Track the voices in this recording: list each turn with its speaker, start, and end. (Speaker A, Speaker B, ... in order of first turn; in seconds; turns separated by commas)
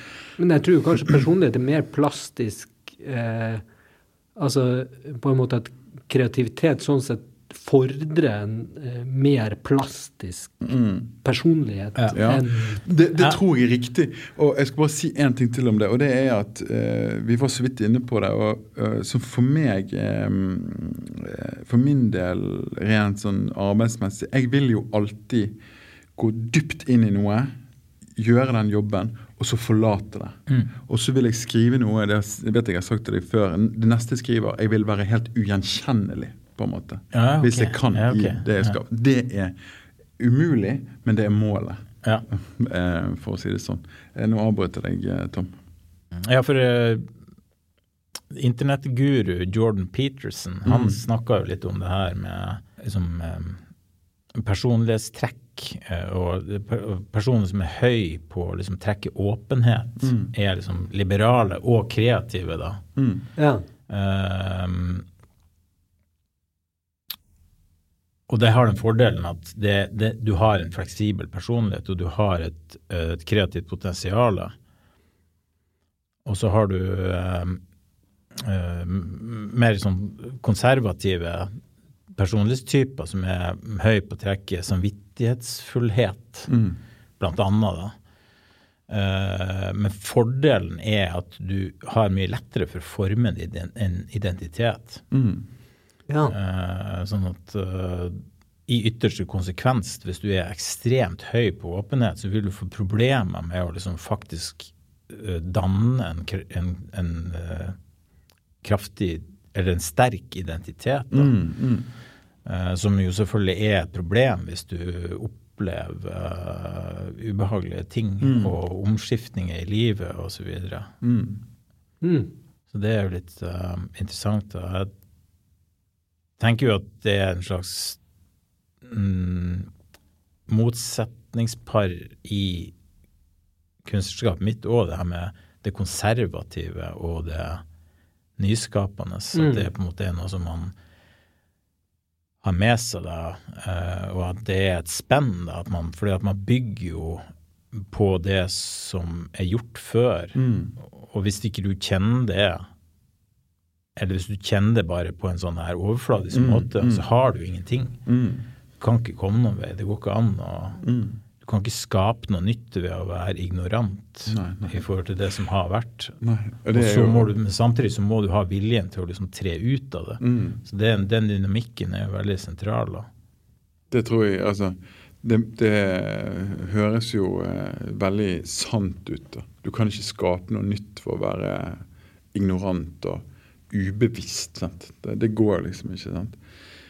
Speaker A: 0.4-3.6, Speaker A: 4.3-10.7, Speaker B: 10.6-11.1, Speaker A: 11.2-12.8, Speaker B: 12.1-25.5, Speaker B: 26.2-27.5, Speaker B: 28.1-39.5, Speaker C: 37.1-38.8, Speaker B: 40.2-45.5, Speaker C: 46.2-47.1, Speaker C: 48.3-53.6, Speaker B: 50.6-51.0, Speaker C: 54.4-62.8, Speaker B: 60.0-60.3, Speaker B: 63.0-63.2, Speaker A: 63.4-63.6, Speaker C: 63.9-65.0, Speaker C: 68.3-74.5, Speaker C: 76.2-77.6, Speaker C: 78.3-81.5, Speaker C: 82.2-86.5, Speaker B: 86.5-86.8, Speaker C: 87.2-87.9, Speaker C: 88.9-95.0, Speaker B: 95.1-95.5, Speaker A: 96.1-96.3, Speaker C: 96.2-107.8, Speaker C: 108.6-111.3, Speaker B: 111.1-111.9, Speaker C: 112.4-120.9, Speaker B: 118.2-118.5, Speaker B: 121.0-121.4, Speaker A: 122.0-122.3, Speaker C: 122.7-124.9, Speaker C: 126.4-128.0, Speaker C: 128.8-129.7, Speaker C: 130.5-132.7, Speaker C: 133.8-137.6, Speaker C: 138.4-140.7, Speaker A: 139.3-139.7, Speaker C: 142.4-152.7, Speaker B: 150.3-150.7, Speaker C: 153.9-158.0, Speaker B: 156.3-157.0, Speaker B: 158.1-158.5, Speaker C: 158.8-160.8, Speaker B: 160.8-161.2, Speaker C: 161.4-166.2, Speaker B: 164.3-164.8, Speaker B: 166.2-167.3, Speaker C: 166.7-173.1, Speaker B: 170.2-170.6, Speaker B: 173.9-186.4